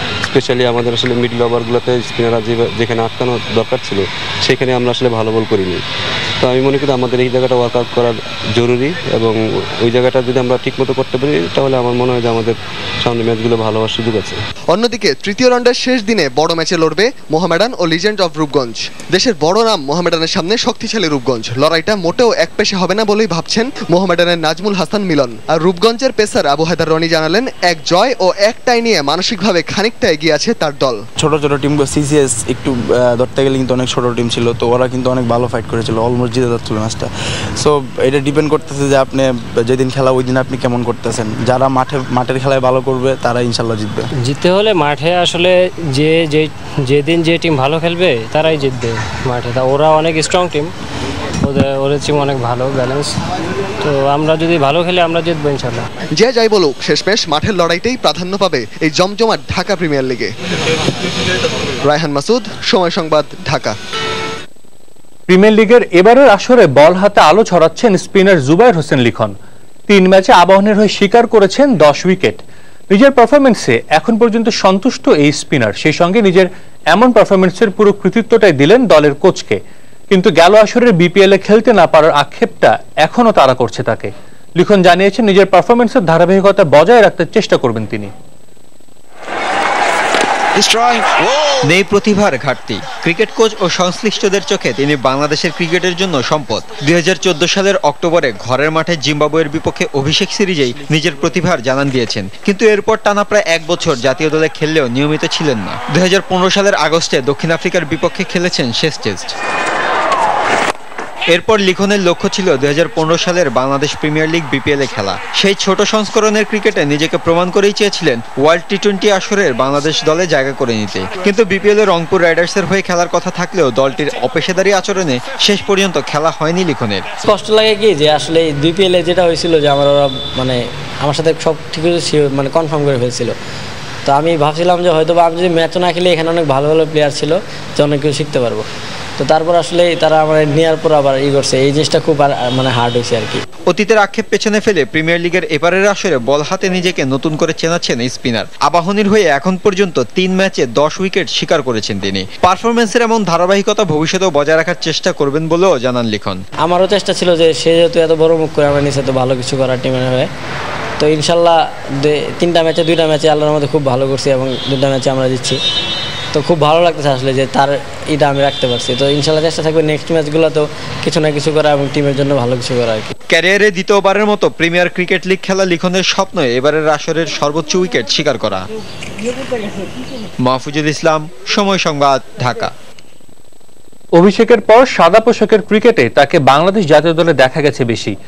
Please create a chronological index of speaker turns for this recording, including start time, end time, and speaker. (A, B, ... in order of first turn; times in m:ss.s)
0:00.3-0:04.0 A
0:04.5-0:05.8 A
0:06.5-0:09.3 A
0:09.9-0:12.5 A
0:13.1-0:14.4 A
0:14.7-0:31.0 B
0:31.2-0:44.1 C
0:44.2-0:50.7 D
0:51.4-0:53.1 D
0:53.8-0:55.8 D
0:56.2-1:00.3 B
1:01.8-1:03.8 B
1:05.3-1:09.3 E
1:09.9-1:19.6 E
1:20.1-1:28.1 E
1:31.6-1:49.3 F
1:51.3-2:07.1 F
2:07.2-2:13.3 G
2:14.0-2:18.6 G
2:19.2-2:23.4 G
2:23.7-2:36.4 F
2:36.6-2:40.3 G
2:41.0-2:45.6 G
2:46.3-2:53.1 G
2:53.3-2:58.7 F
3:00.4-3:02.7 F
3:04.1-3:08.1 E